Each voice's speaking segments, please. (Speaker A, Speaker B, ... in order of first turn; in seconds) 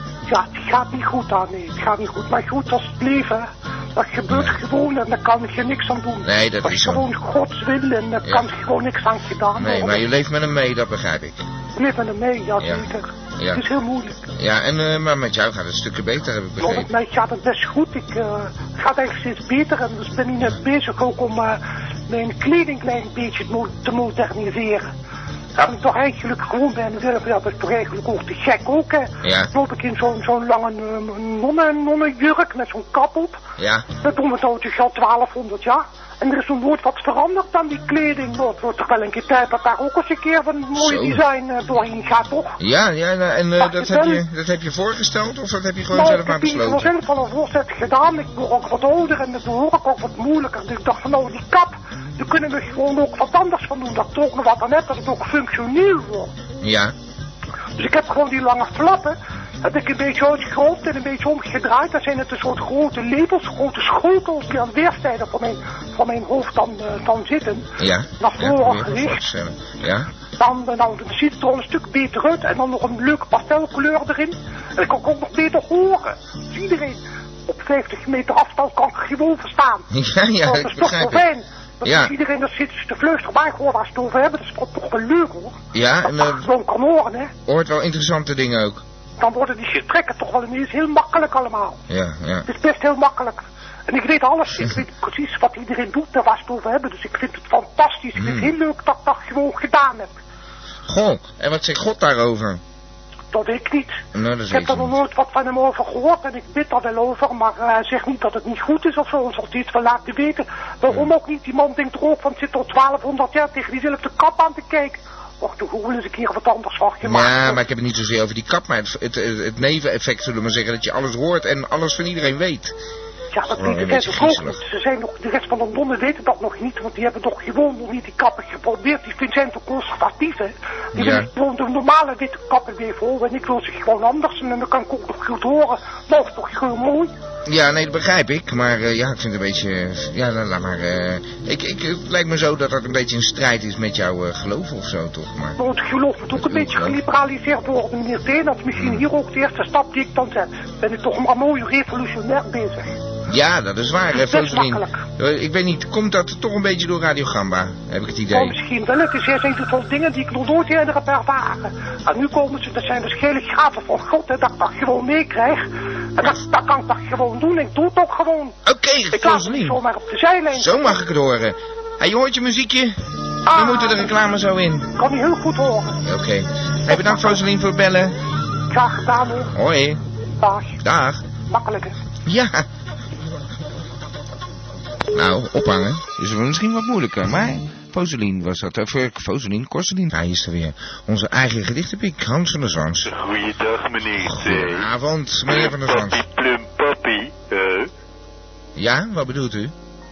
Speaker A: 0.3-10.0, 11.8-14.3, 16.6-24.9, 25.6-33.4, 34.0-42.6, 43.6-44.2, 45.9-56.3, 57.8-69.2, 70.4-79.9, 80.4-87.3, 89.2-91.8, 92.5-100.2, 103.3-117.6, 123.3-137.1, 145.6-153.0, 154.1-155.0, 158.3-168.6, 169.1-171.0, 173.4-174.2, 174.9-176.0, 176.9-177.4, 178.7-179.5, 180.4-180.8, 181.4-181.9
Speaker B: 4.3-4.6, 6.2-7.0, 9.5-11.4, 12.6-12.8, 13.4-13.6, 14.3-16.9, 29.2-29.5, 33.6-33.9, 40.7-41.2, 42.6-46.9, 56.6-56.9, 67.8-70.1, 79.9-81.2, 81.8-82.1, 85.7-86.5, 87.5-88.8, 91.9-92.5, 98.1-98.5, 100.9-102.6, 104.1-105.0, 117.0-122.8, 123.5-124.6, 130.9-131.3, 137.4-145.6, 146.3-147.0, 148.7-149.0, 153.3-158.6, 168.6-169.8, 170.5-174.9, 176.0-178.1, 179.5-180.0, 180.8-181.3, 182.2-182.7, 185.1-193.1, 194.2-196.2, 198.8-199.7
Speaker C: 193.0-194.9, 195.4-197.9